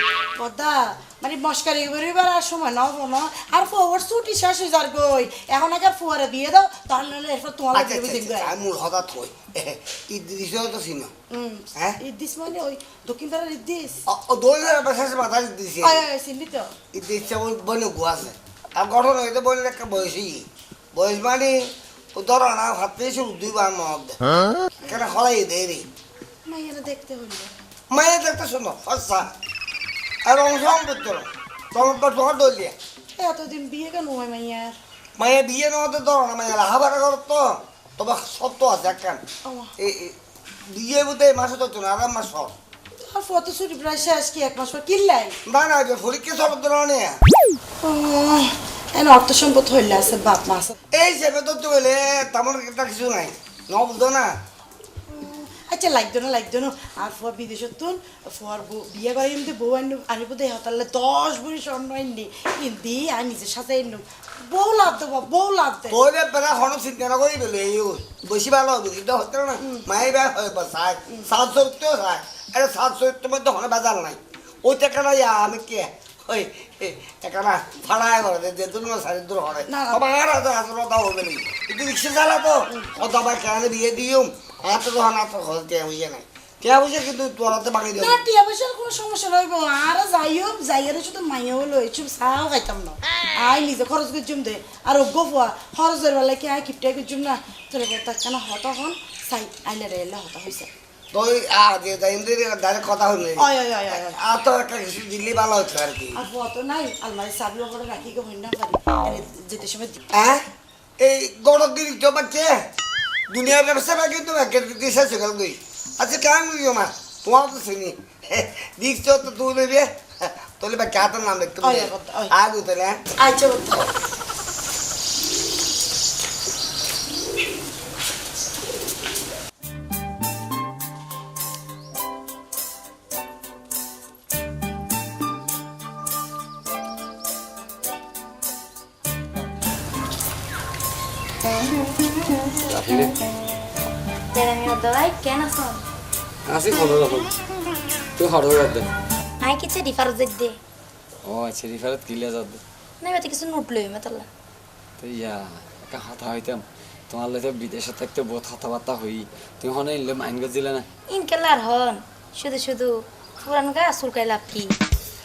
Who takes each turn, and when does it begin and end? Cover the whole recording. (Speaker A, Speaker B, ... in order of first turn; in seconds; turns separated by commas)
Speaker A: 0.4-8.6, Speaker B: 7.7-11.1, Speaker A: 11.3-14.0, Speaker B: 14.1-16.0, Speaker A: 15.8-16.7, Speaker B: 16.9-24.2, Speaker B: 24.8-25.9, Speaker A: 26.5-27.5, Speaker B: 27.9-29.3, Speaker B: 30.2-32.8, Speaker A: 33.2-34.8, Speaker B: 35.2-39.2, Speaker A: 39.4-39.7, Speaker B: 39.8-40.2, Speaker B: 40.7-42.5, Speaker A: 43.0-45.4, Speaker B: 45.5-47.2, Speaker A: 47.8-50.8, Speaker B: 50.9-54.4, Speaker A: 55.1-66.0, Speaker B: 65.9-88.2, Speaker A: 69.6-69.9, Speaker A: 79.7-80.0, Speaker A: 82.7-83.0, Speaker A: 88.0-100.7, Speaker B: 101.1-106.2, Speaker A: 103.4-104.2, Speaker A: 106.2-110.0, Speaker B: 110.1-110.5, Speaker B: 111.0-112.6, Speaker B: 113.3-123.0, Speaker A: 121.6-122.3, Speaker A: 123.2-123.9, Speaker C: 141.7-143.1, Speaker D: 142.7-143.1, Speaker C: 144.3-145.8, Speaker D: 146.5-147.3, Speaker D: 148.2-148.9, Speaker C: 149.4-150.6, Speaker D: 151.2-152.6, Speaker C: 153.0-154.3, Speaker D: 155.0-160.9, Speaker C: 161.1-164.7